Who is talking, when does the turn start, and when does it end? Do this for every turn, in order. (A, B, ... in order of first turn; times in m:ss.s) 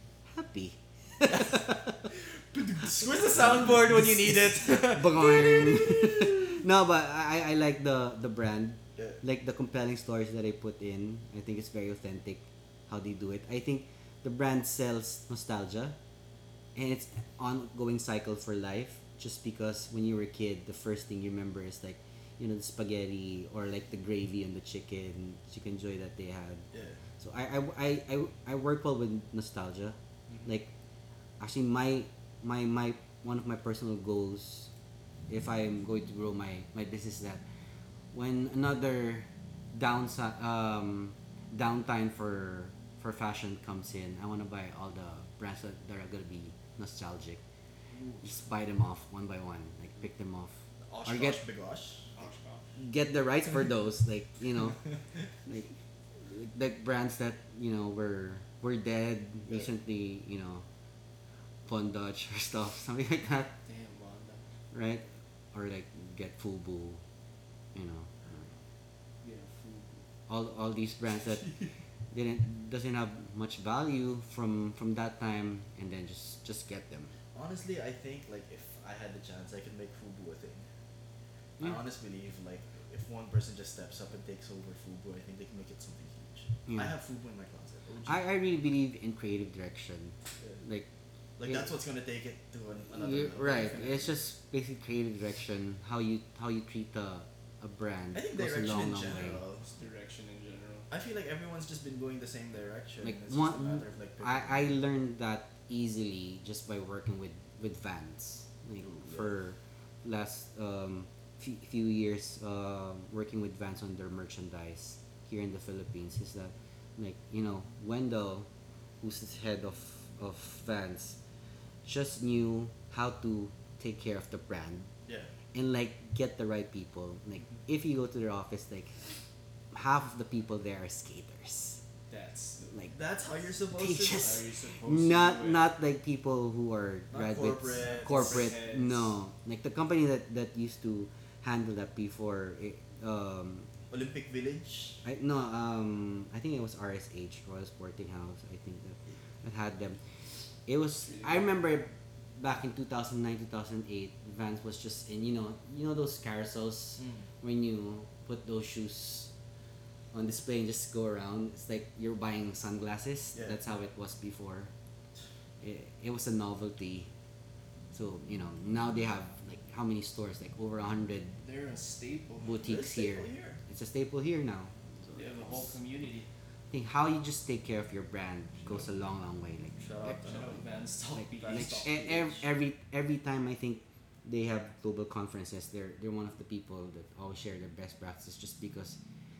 0:00.3-0:02.1 A
0:01.2-0:06.6 B
0:03.4-0:04.0 A
0:04.6-0:16.0 A
0:16.7-0:26.6 A
0:26.7-0:27.0 B
0:27.2-0:30.7 A
0:30.3-0:30.6 C
0:31.4-0:34.7 A
0:35.3-0:37.4 A
0:38.1-0:47.4 A
0:47.9-0:48.2 C
0:48.2-0:51.4 A
0:50.8-0:52.2 B
0:52.1-0:52.7 C
0:52.8-0:54.8 A
0:55.4-1:00.6 A
1:01.6-1:03.5 A
1:03.6-1:04.4 C
1:04.7-1:07.0 A
1:07.7-1:08.5 A
1:09.2-1:10.0 C
1:10.3-1:11.5 A
1:11.4-1:11.8 C
1:12.1-1:17.1 A
1:17.3-1:20.7 B
1:21.6-1:28.3 B
1:26.7-1:26.9 A
1:28.0-1:30.9 A
1:31.4-1:34.1 B
1:32.9-1:39.4 A
1:33.6-1:34.0 C
1:38.1-1:39.7 B
1:39.7-1:40.9 C
1:40.9-1:44.8 B
1:43.0-1:58.5 A
1:48.8-1:49.3 B
1:59.0-2:01.2 A
2:01.8-2:04.9 A
2:05.1-2:05.3 B
2:05.5-2:09.0 A
2:09.7-2:11.8 A
2:12.1-2:12.8 C
2:12.7-2:13.0 A
2:12.9-2:14.5 B
2:13.7-2:23.7 A
2:14.1-2:15.7 C
2:17.1-2:18.6 B
2:17.9-2:19.2 C
2:23.9-2:25.0 B
2:25.0-2:30.0 A
2:30.6-2:39.3 A
2:31.0-2:31.6 C
2:37.0-2:37.2 B
2:40.1-2:44.7 A
2:43.3-2:43.6 B
2:45.6-2:47.1 A
2:47.9-2:51.4 A
2:51.4-2:52.7 C
2:52.4-2:54.7 A
2:52.6-2:53.6 B
2:55.0-2:55.6 B
2:55.1-2:56.3 C
2:56.7-3:00.2 A
2:59.8-3:00.7 B
3:00.2-3:02.0 C
3:01.1-3:09.0 A
3:01.3-3:02.4 B